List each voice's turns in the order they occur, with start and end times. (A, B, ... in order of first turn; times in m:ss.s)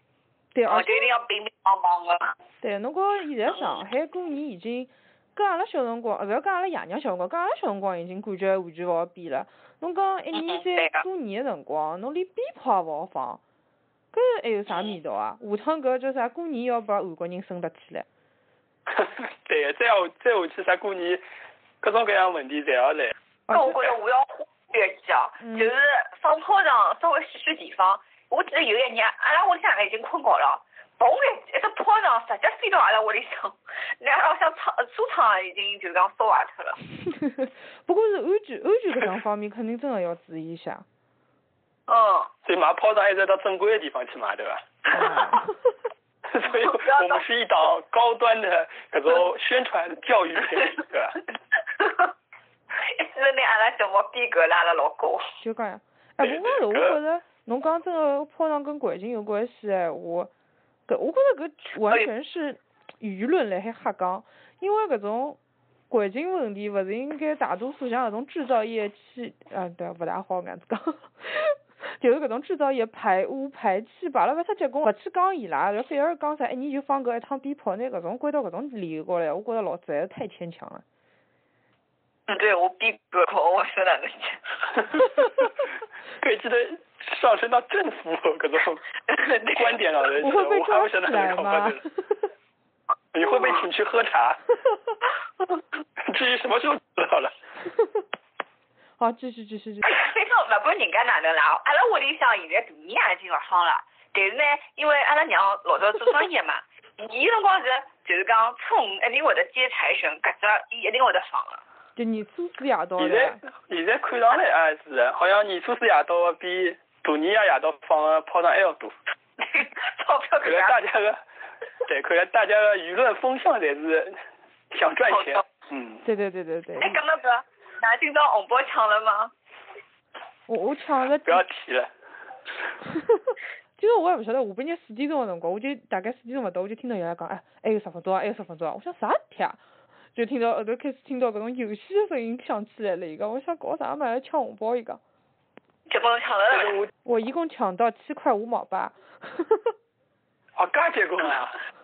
0:00.5-0:01.1 A
0:00.7-0:02.3 B
0:02.6-0:13.4 A
0:03.5-0:03.8 B
0:10.3-0:11.0 B
0:14.1-0:18.0 A
0:18.9-0:21.2 C
0:21.8-0:23.1 C
0:23.5-0:23.8 A
0:23.5-0:36.8 B
0:25.4-0:25.7 A
0:37.0-0:40.8 A
0:41.9-0:42.3 B
0:42.4-0:44.6 C
0:44.9-0:45.5 A
0:45.0-0:45.3 B
0:46.3-0:51.2 C
0:46.4-0:47.2 B
0:51.8-0:52.1 B
0:52.8-0:55.3 B
0:55.4-1:00.3 A
0:56.2-0:57.0 C
1:00.9-1:05.4 A
1:05.9-1:20.8 A
1:22.3-1:24.6 B
1:26.2-1:28.9 C
1:29.1-1:29.8 B
1:29.5-1:31.8 C
1:30.2-1:32.3 A
1:33.1-1:34.4 C
1:36.0-1:37.3 C
1:39.0-1:40.0 A
1:39.8-1:51.6 B
1:52.0-1:53.4 A
1:53.0-1:58.9 C
1:59.4-2:00.8 B
2:00.4-2:01.2 C
2:01.8-2:04.2 C
2:04.7-2:06.0 C
2:05.1-2:05.4 B
2:06.0-2:07.0 A
2:06.8-2:09.3 B
2:10.5-2:11.4 A
2:11.2-2:11.9 C
2:12.9-2:19.6 A
2:20.1-2:25.0 A
2:25.9-2:26.8 B
2:26.5-2:26.9 C
2:27.0-2:29.7 A
2:30.6-2:31.6 C